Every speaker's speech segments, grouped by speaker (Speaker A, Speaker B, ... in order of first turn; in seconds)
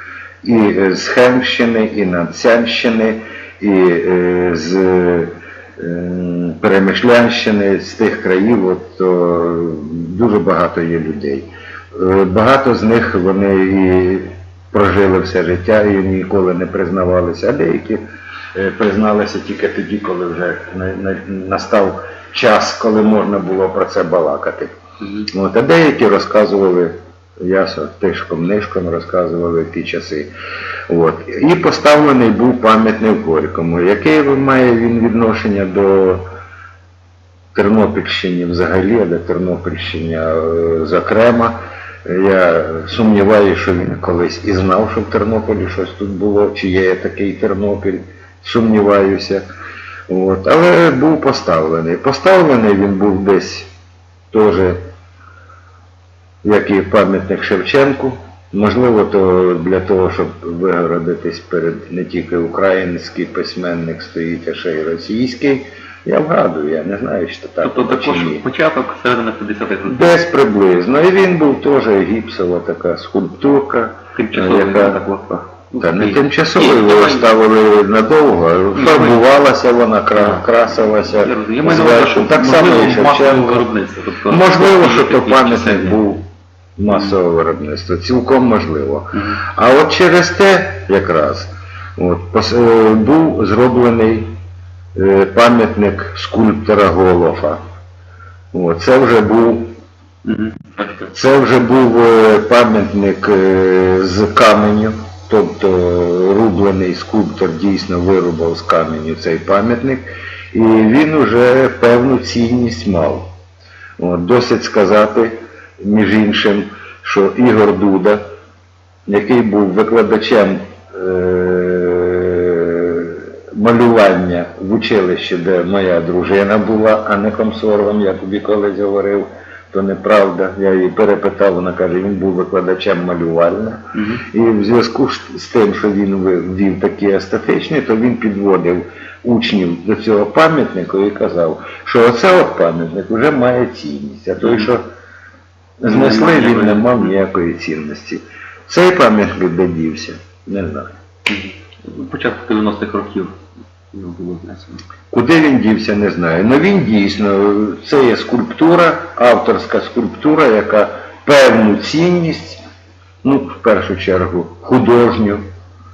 Speaker A: 0.4-18.0, 18.5-24.7, 25.3-30.3, 30.9-36.2, 37.5-49.4, 50.1-53.7, 54.3-54.8, 56.4-68.4, 69.8-75.0, 75.8-83.7, 84.3-86.2, 86.8-94.3, 94.9-97.6, 98.5-99.7, 101.1-113.3, 114.0-118.2, 119.1-144.8, 145.8-150.9, 155.1-162.6, 163.2-165.4
Speaker B: 67.6-70.1, 74.1-77.3, 78.7-79.2, 80.2-80.5, 81.2-86.0, 100.2-101.1, 133.9-134.2, 144.4-144.7, 145.8-147.1, 151.3-153.3, 153.9-154.8